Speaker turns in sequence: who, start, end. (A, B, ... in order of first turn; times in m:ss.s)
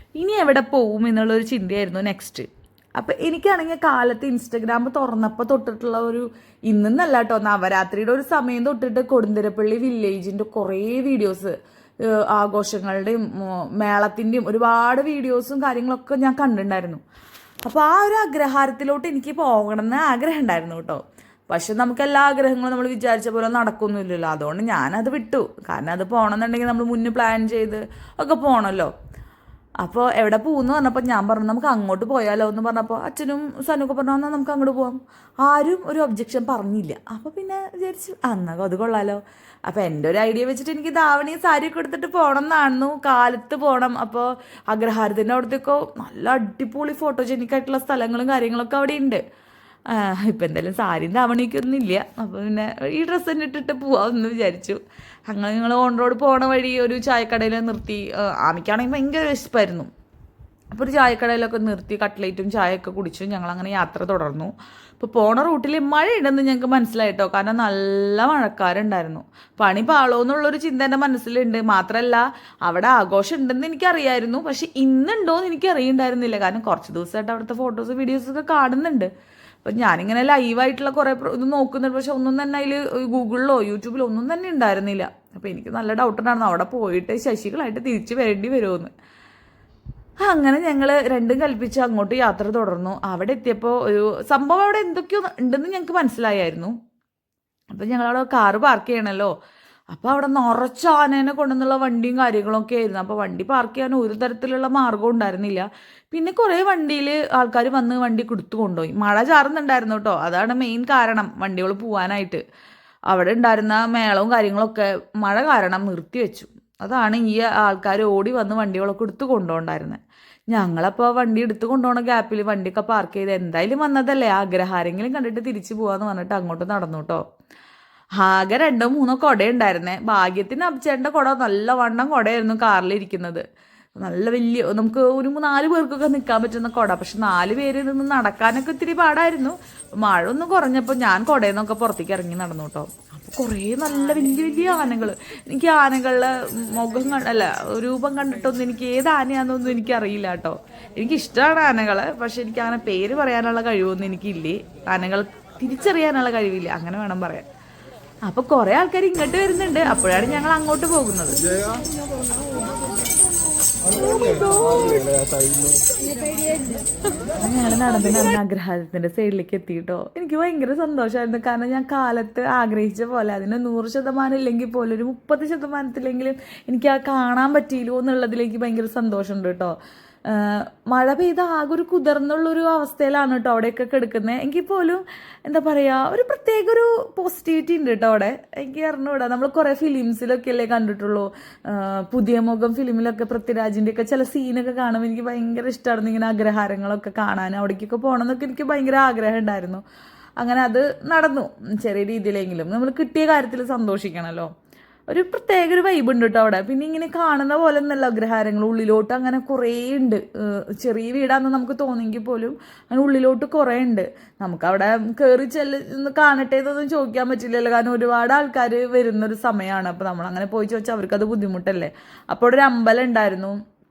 0:00.2-0:17.0 A
0:17.6-0:28.9 A
0:29.8-0:49.2 A
0:49.9-0:59.9 A
1:00.7-1:19.1 A
1:19.6-1:28.9 A
1:30.2-1:36.8 A
1:37.7-1:39.3 A
1:39.9-1:52.4 A
1:53.1-2:00.0 A
2:00.5-2:07.2 A
2:08.2-2:13.4 A
2:14.0-2:37.5 A
2:38.3-2:41.5 A
2:47.4-2:59.8 A
3:00.3-3:19.8 A
3:20.4-3:24.5 A
3:25.1-3:43.6 A